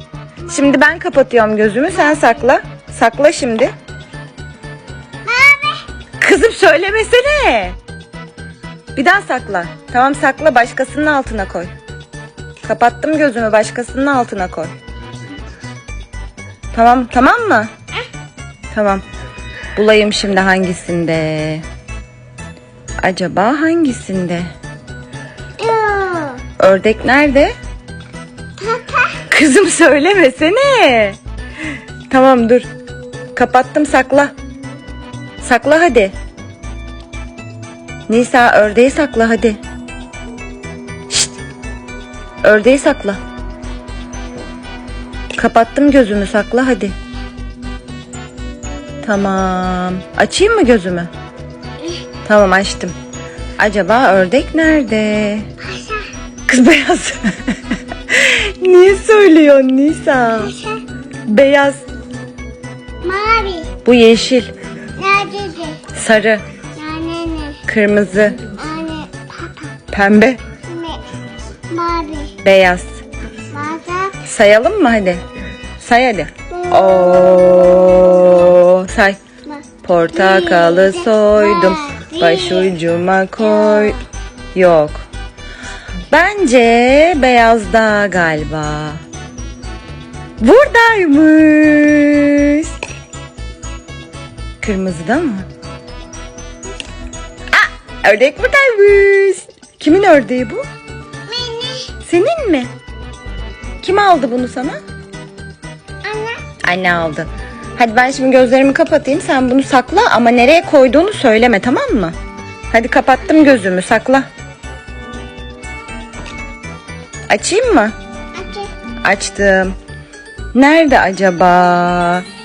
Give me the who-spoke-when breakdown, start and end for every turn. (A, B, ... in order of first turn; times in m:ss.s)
0:00.5-0:03.7 A
0:01.9-0:02.5 B
0:05.2-0:05.8 B
0:06.2-0:07.8 A
0:09.0-0:11.7 A
0:12.6-0:14.7 A
0:16.7-0:17.7 A
0:18.7-0:19.0 A
0:19.8-0:21.6 A
0:23.0-0:24.5 A
0:25.6-0:26.4 B
0:26.6-0:27.5 A
0:28.6-0:29.2 B
0:29.3-0:31.2 A
0:32.1-0:32.7 A
0:33.4-0:34.3 A
0:35.4-0:36.1 A
0:38.1-0:39.6 A
0:42.4-0:43.2 A
0:45.4-0:46.9 A
0:49.0-0:51.1 A
0:52.2-0:52.9 A
0:53.6-0:55.5 A
0:55.6-0:56.1 B
0:56.5-1:00.5 A
1:00.4-1:00.8 B
1:01.3-1:01.8 A
1:03.0-1:03.7 B
1:03.8-1:04.5 A
1:05.0-1:05.8 B
1:05.9-1:06.4 A
1:06.8-1:07.6 B
1:07.7-1:08.5 A
1:08.6-1:09.7 B
1:09.9-1:10.4 A
1:10.6-1:11.0 B
1:11.7-1:12.3 B
1:12.4-1:13.0 A
1:13.5-1:14.2 B
1:14.2-1:15.2 A
1:15.8-1:19.2 A
1:16.5-1:18.4 B
1:19.5-1:22.7 B
1:19.8-1:24.0 A
1:23.4-1:24.0 B
1:24.6-1:25.0 A
1:26.1-1:29.0 A
1:30.4-1:32.7 A
1:34.6-1:35.5 A
1:37.5-1:40.6 A
1:41.3-1:41.9 B
1:42.0-1:42.7 A
1:43.8-1:44.8 A
1:46.0-1:46.4 B
1:46.6-1:52.2 A
1:52.7-1:54.3 A
1:57.3-1:57.9 A
1:58.4-1:58.7 B
1:59.0-1:59.7 A
2:00.5-2:02.2 A